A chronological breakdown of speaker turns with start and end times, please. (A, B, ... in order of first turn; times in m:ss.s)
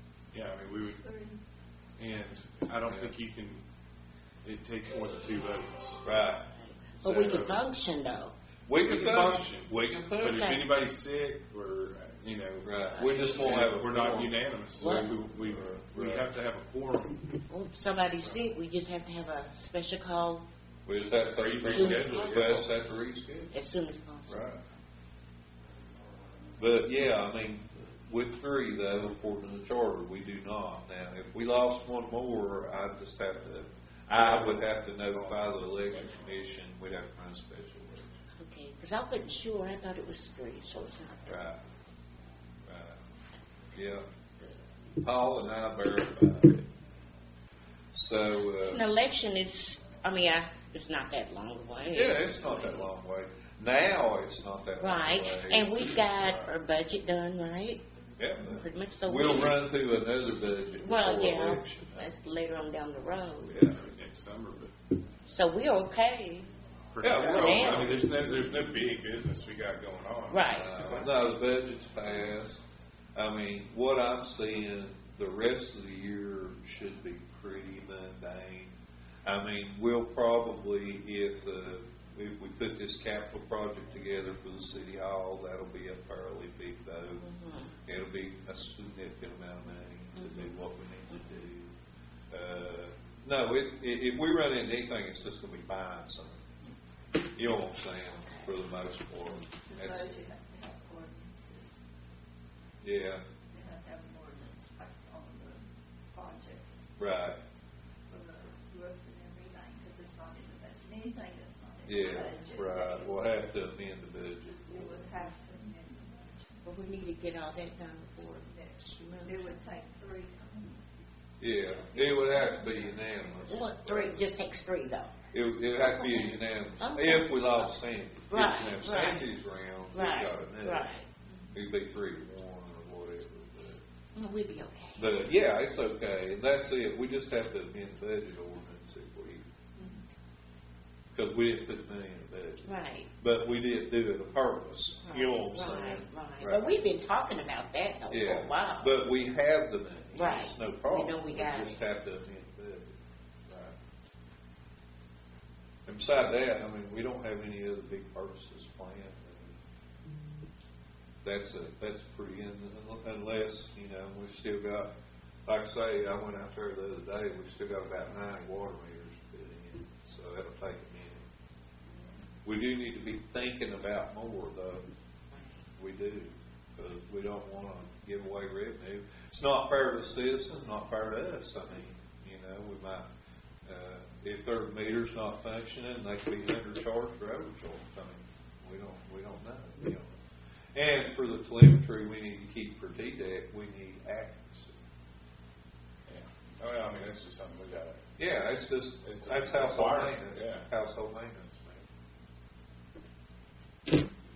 0:00.3-0:01.0 A
0:00.6-0:01.4 B
0:02.0-0:03.6 A
0:02.8-0:03.1 C
0:04.4-0:06.0 A
0:06.0-0:06.5 C
0:06.6-0:08.3 D
0:07.0-0:07.6 C
0:07.2-0:07.4 A
0:08.7-0:10.5 C
0:08.8-0:12.7 A
0:10.3-0:10.6 D
0:12.6-0:14.4 C
0:12.9-0:13.7 D
0:13.3-0:17.3 A
0:14.8-0:15.1 D
0:15.3-0:16.3 C
0:17.5-0:20.4 D
0:20.8-0:23.5 C
0:21.3-0:22.7 A
0:21.7-0:22.5 D
0:23.5-0:24.5 D
0:24.3-0:24.6 C
0:26.6-0:38.1 C
0:34.1-0:36.3 A
0:38.4-0:41.4 D
0:41.3-0:41.6 C
0:42.6-0:43.0 C
0:43.7-0:44.0 C
0:45.0-0:46.6 C
0:47.9-0:48.8 C
0:48.6-0:52.9 D
0:51.9-0:56.5 C
0:54.8-0:57.8 D
0:58.2-1:02.1 C
0:58.4-0:59.6 D
1:00.8-1:03.6 D
1:03.5-1:04.7 A
1:03.5-1:03.8 C
1:05.3-1:06.5 D
1:06.9-1:11.1 A
1:07.0-1:08.1 C
1:07.3-1:07.9 D
1:10.3-1:10.7 D
1:10.5-1:12.6 C
1:13.1-1:27.2 C
1:27.2-1:27.7 D
1:27.8-1:31.7 C
1:30.2-1:30.5 D
1:32.3-1:36.4 C
1:37.3-1:40.2 C
1:38.1-1:38.5 D
1:39.6-1:41.8 B
1:42.8-1:43.2 C
1:43.5-1:46.7 B
1:47.0-1:47.4 C
1:48.1-1:53.3 B
1:51.8-1:55.1 C
1:54.6-1:56.9 B
1:56.6-1:59.6 D
1:58.4-2:00.8 B
2:01.4-2:04.3 C
2:01.4-2:03.6 B
2:03.5-2:05.1 D
2:05.3-2:10.9 C
2:05.8-2:07.7 D
2:08.3-2:09.3 D
2:09.9-2:11.1 D
2:11.2-2:11.5 B
2:11.5-2:13.8 C
2:14.1-2:15.2 D
2:15.0-2:19.4 C
2:19.8-2:20.0 B
2:21.1-2:26.7 C
2:22.6-2:23.1 D
2:25.1-2:29.0 D
2:28.1-2:32.9 C
2:30.1-2:31.8 D
2:33.5-2:33.7 C
2:35.9-2:39.6 C
2:41.2-2:44.9 C
2:45.4-2:51.2 C
2:51.9-2:52.3 B
2:52.4-2:54.8 C
2:55.3-2:55.6 D
2:55.8-3:03.0 C
3:03.6-3:10.1 C
3:10.7-3:14.7 C
3:16.1-3:18.0 A
3:18.2-3:21.8 C
3:19.0-3:20.7 A